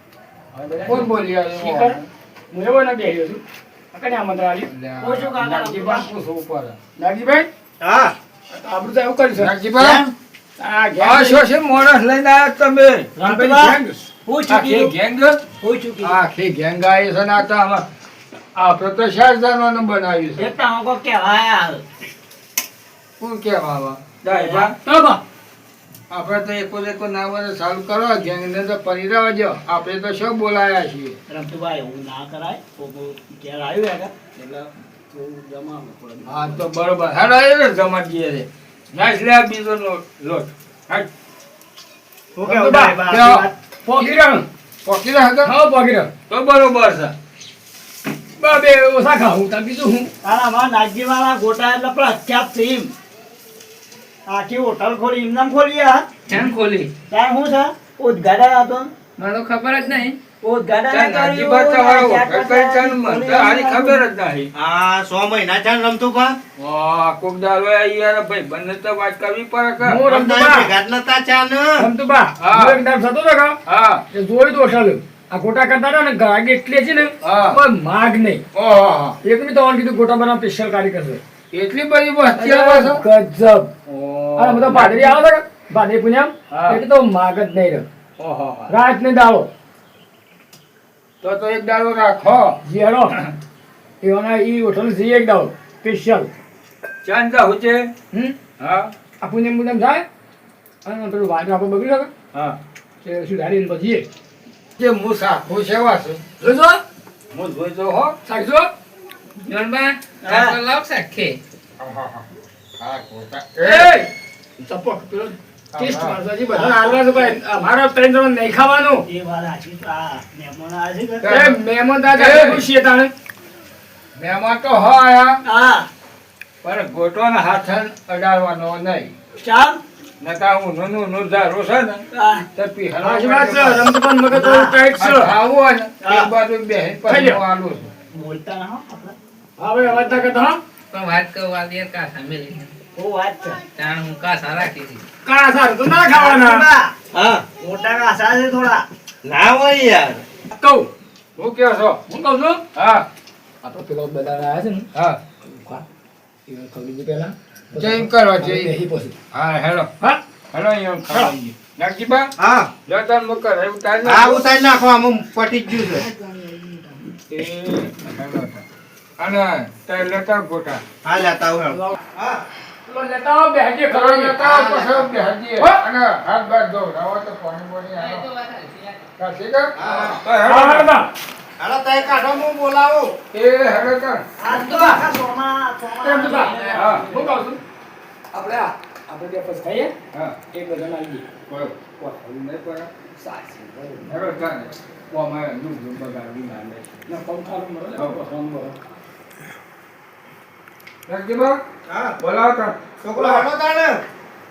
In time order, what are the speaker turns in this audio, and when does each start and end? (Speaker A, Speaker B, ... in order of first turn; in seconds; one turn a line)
Speaker A: 0.5-2.0
Speaker B: 0.8-2.0
Speaker A: 2.5-4.7
Speaker B: 4.7-6.8
Speaker C: 5.0-6.1
Speaker A: 7.0-7.5
Speaker D: 7.8-8.1
Speaker A: 8.5-9.5
Speaker B: 9.4-10.0
Speaker D: 9.8-10.1
Speaker A: 10.6-11.4
Speaker B: 11.0-13.1
Speaker C: 13.2-14.9
Speaker A: 13.2-14.1
Speaker B: 14.5-15.4
Speaker C: 15.6-16.2
Speaker B: 16.0-17.9
Speaker B: 18.6-20.5
Speaker C: 20.4-21.8
Speaker B: 23.2-24.7
Speaker C: 24.2-24.7
Speaker A: 24.8-25.2
Speaker B: 26.1-31.2
Speaker C: 31.3-36.6
Speaker B: 36.2-41.1
Speaker C: 42.4-43.5
Speaker A: 42.4-43.0
Speaker B: 43.1-43.5
Speaker A: 43.8-44.5
Speaker B: 44.8-45.5
Speaker A: 45.4-46.1
Speaker B: 46.3-47.1
Speaker A: 48.4-50.1
Speaker C: 50.2-52.9
Speaker C: 54.3-56.0
Speaker E: 56.3-56.9
Speaker B: 56.3-56.9
Speaker C: 57.1-58.9
Speaker E: 59.2-60.2
Speaker C: 60.4-64.0
Speaker B: 60.9-64.5
Speaker D: 64.5-66.4
Speaker B: 66.6-70.0
Speaker A: 69.8-70.7
Speaker D: 70.0-71.9
Speaker A: 71.8-73.5
Speaker B: 72.4-72.8
Speaker B: 73.7-74.0
Speaker A: 74.1-78.4
Speaker B: 77.2-77.6
Speaker B: 78.5-79.2
Speaker A: 79.2-81.2
Speaker B: 81.5-83.0
Speaker A: 82.3-83.7
Speaker B: 83.8-85.2
Speaker A: 84.4-87.9
Speaker B: 86.5-86.8
Speaker B: 88.2-88.7
Speaker A: 88.7-89.5
Speaker B: 91.2-92.6
Speaker A: 92.6-93.3
Speaker A: 94.0-96.3
Speaker B: 97.0-97.9
Speaker A: 98.1-98.4
Speaker B: 98.6-98.9
Speaker A: 99.2-100.0
Speaker A: 100.8-102.1
Speaker B: 102.3-102.6
Speaker A: 103.0-104.0
Speaker B: 104.8-106.4
Speaker A: 106.4-106.8
Speaker B: 107.3-108.1
Speaker A: 108.2-108.7
Speaker E: 109.4-111.4
Speaker C: 110.2-110.6
Speaker B: 111.8-112.2
Speaker B: 112.8-113.9
Speaker A: 113.6-119.0
Speaker B: 115.7-116.2
Speaker C: 116.5-117.3
Speaker C: 119.0-121.2
Speaker B: 121.2-122.6
Speaker A: 121.2-123.1
Speaker B: 124.2-125.4
Speaker C: 125.4-125.9
Speaker B: 126.6-129.1
Speaker C: 129.4-129.8
Speaker B: 130.2-133.9
Speaker C: 132.1-132.4
Speaker A: 133.0-135.3
Speaker C: 134.3-134.8
Speaker B: 135.0-137.9
Speaker C: 136.0-136.3
Speaker A: 137.1-137.4
Speaker C: 138.1-139.1
Speaker A: 139.6-140.6
Speaker E: 140.9-142.7
Speaker C: 142.9-143.6
Speaker E: 143.7-145.0
Speaker A: 145.2-146.7
Speaker C: 146.1-146.9
Speaker D: 147.1-147.4
Speaker C: 147.6-148.8
Speaker D: 149.2-150.2
Speaker A: 150.5-150.9
Speaker B: 151.4-152.0
Speaker A: 152.1-152.6
Speaker B: 152.7-153.0
Speaker A: 153.6-154.9
Speaker B: 154.9-155.2
Speaker A: 155.4-155.8
Speaker A: 156.4-159.1
Speaker B: 157.8-158.7
Speaker B: 159.3-159.9
Speaker B: 160.5-162.3
Speaker A: 161.0-161.3
Speaker D: 162.4-162.7
Speaker B: 162.8-164.5
Speaker D: 164.0-166.1
Speaker B: 167.4-168.6
Speaker B: 169.2-170.8
Speaker D: 171.0-172.4
Speaker A: 171.7-172.0
Speaker A: 172.8-174.4
Speaker B: 173.9-178.3
Speaker E: 178.0-179.0
Speaker B: 179.2-180.9
Speaker D: 179.8-180.2
Speaker A: 180.4-181.1
Speaker D: 181.6-183.2
Speaker B: 183.3-184.3
Speaker C: 184.4-187.3
Speaker E: 184.5-185.0
Speaker A: 186.0-187.6
Speaker E: 186.2-187.1
Speaker B: 186.7-187.1
Speaker A: 188.3-189.9
Speaker A: 190.5-191.2
Speaker B: 191.5-192.9
Speaker A: 193.2-194.1
Speaker B: 194.1-197.0
Speaker A: 197.1-198.8
Speaker B: 201.1-201.6
Speaker D: 201.8-202.2
Speaker B: 202.2-203.5
Speaker D: 203.0-204.0